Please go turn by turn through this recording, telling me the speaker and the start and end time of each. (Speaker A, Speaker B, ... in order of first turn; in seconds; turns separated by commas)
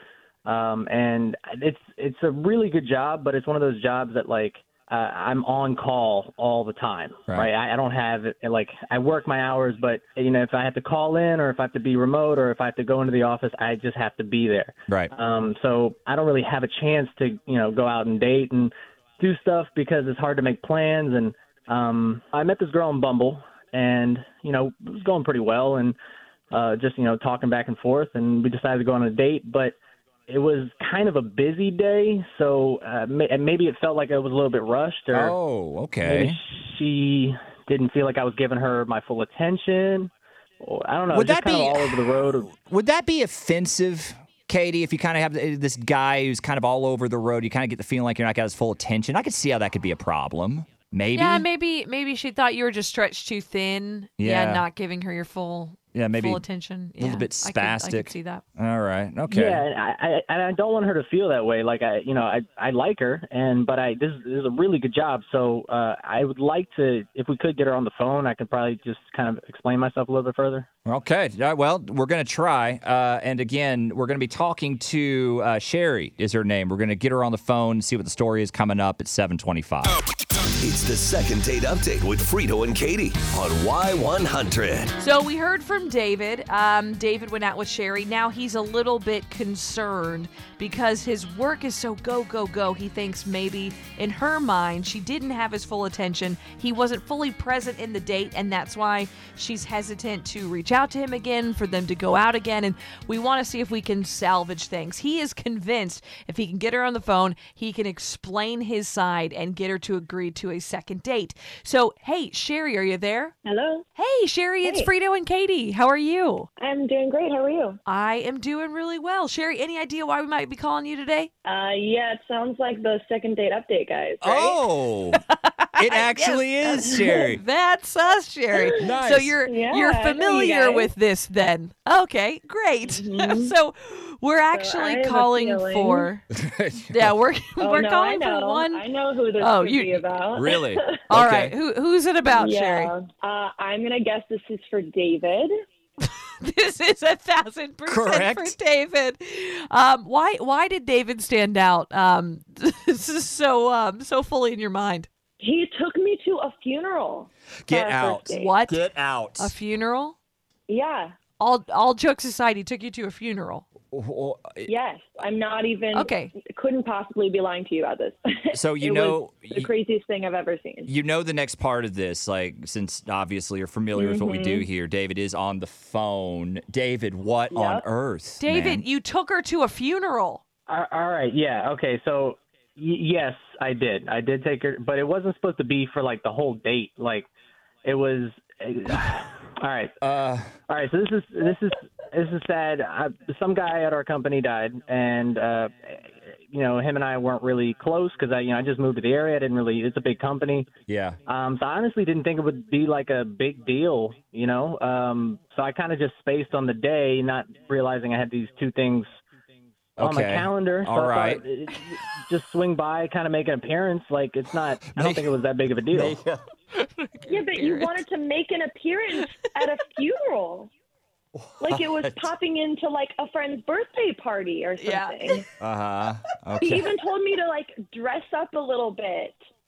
Speaker A: 0.5-26.0, Speaker A: 26.5-29.8, Speaker A: 30.3-35.4, Speaker B: 35.1-36.4, Speaker A: 36.0-42.5, Speaker B: 41.1-51.5, Speaker C: 51.1-58.4, Speaker B: 54.2-54.6, Speaker B: 55.9-56.4, Speaker B: 57.0-59.6, Speaker A: 59.3-70.7, Speaker B: 70.8-80.0, Speaker D: 80.5-84.9, Speaker C: 85.0-113.3, Speaker E: 113.5-113.9, Speaker C: 114.0-116.5, Speaker E: 114.6-114.9, Speaker E: 116.6-117.8, Speaker C: 117.9-121.3, Speaker E: 121.5-124.6, Speaker B: 124.2-125.2, Speaker C: 125.1-136.2, Speaker B: 125.8-127.4, Speaker E: 128.5-128.9, Speaker B: 128.8-129.4, Speaker E: 129.5-130.9, Speaker E: 132.9-133.5, Speaker E: 134.5-136.1, Speaker B: 136.3-137.2, Speaker C: 136.9-138.8, Speaker E: 137.6-141.0, Speaker C: 139.4-140.1, Speaker B: 140.3-141.6, Speaker C: 141.1-142.9, Speaker E: 142.3-145.5, Speaker C: 146.0-155.1, Speaker B: 147.9-148.6, Speaker E: 155.4-158.6, Speaker B: 157.7-159.5, Speaker C: 158.3-158.8, Speaker C: 159.4-160.2, Speaker E: 160.7-161.2, Speaker C: 161.4-163.7, Speaker B: 163.9-164.7, Speaker E: 164.7-170.9, Speaker C: 165.9-166.3, Speaker B: 168.5-169.7, Speaker B: 170.9-178.9, Speaker E: 173.9-174.7, Speaker E: 177.5-177.8, Speaker C: 178.4-180.4, Speaker A: 180.7-187.3, Speaker A: 187.8-189.9, Speaker B: 190.0-190.5, Speaker A: 190.7-200.7, Speaker B: 200.9-201.2, Speaker A: 201.3-209.1, Speaker B: 210.0-211.4, Speaker A: 210.0-216.2, Speaker B: 214.9-215.3, Speaker B: 215.9-216.4, Speaker C: 216.8-218.0, Speaker E: 217.3-220.7, Speaker B: 221.3-222.3, Speaker E: 221.6-225.5, Speaker C: 224.8-225.4, Speaker B: 225.6-226.9, Speaker E: 226.6-229.4